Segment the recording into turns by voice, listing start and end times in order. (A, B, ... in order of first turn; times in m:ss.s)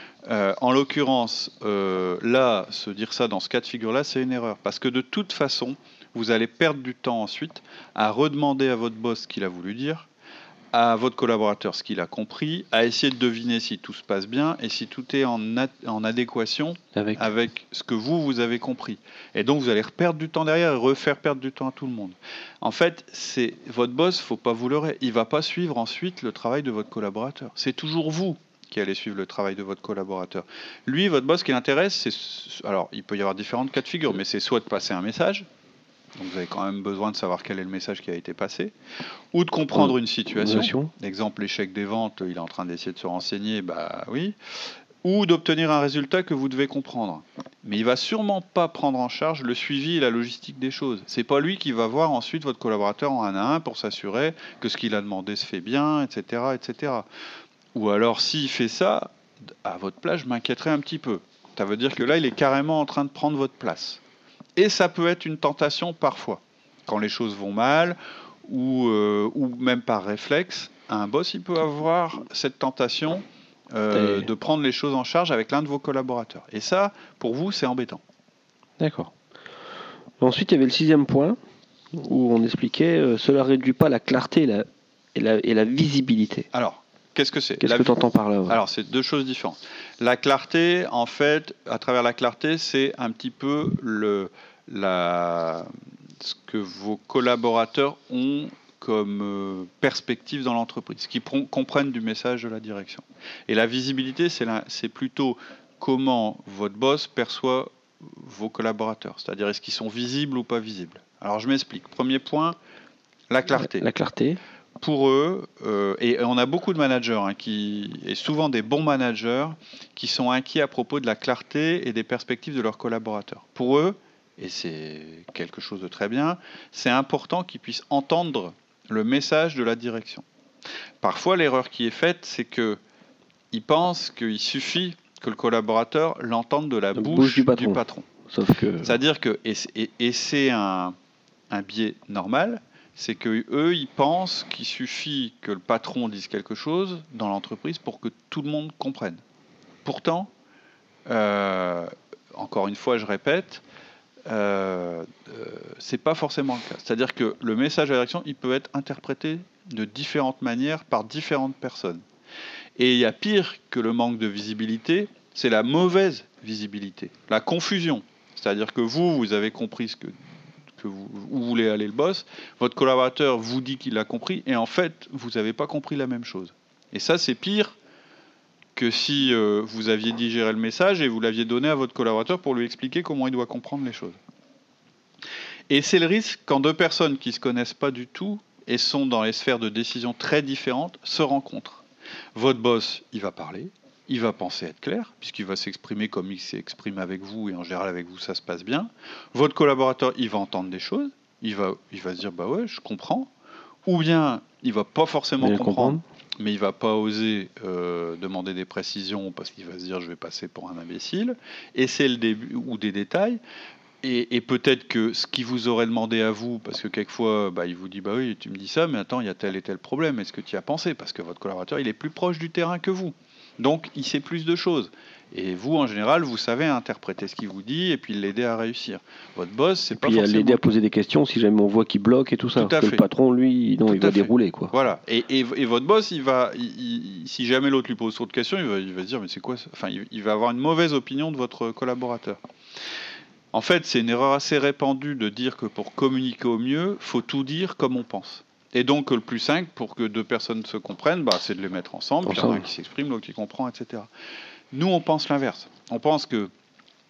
0:00.2-0:10.1 A
0:10.7-0:35.4 A
0:16.9-0:17.3 B
0:36.2-0:38.7 A
0:39.3-0:44.4 A
0:39.7-0:40.9 B
0:45.0-0:57.0 A
0:57.7-1:04.0 A
1:04.6-1:18.0 A
1:13.9-1:14.3 B
1:18.8-1:19.1 B
1:20.2-1:21.4 B
1:21.9-1:26.5 B
1:26.5-1:35.7 A
1:27.6-1:28.6 B
1:36.2-1:52.6 A
1:53.3-1:53.8 A
1:53.5-1:54.4 B
1:54.8-2:10.2 A
2:11.0-2:12.8 A
2:13.5-2:18.1 A
2:16.9-2:19.0 B
2:18.8-2:20.9 A
2:21.5-2:29.2 A
2:29.8-2:30.3 A
2:31.1-2:33.6 A
2:34.3-2:42.0 A
2:42.8-2:50.1 A
2:50.8-2:57.8 A
2:58.8-3:04.2 A
3:05.7-3:11.8 A
3:12.3-3:23.3 A
3:23.8-3:33.4 A
3:25.4-3:26.0 B
3:34.0-3:50.7 A
3:49.9-3:54.7 B
3:52.6-3:53.0 A
3:53.9-4:02.4 A
4:03.5-4:14.1 A
4:12.2-4:12.6 B
4:14.7-4:16.5 A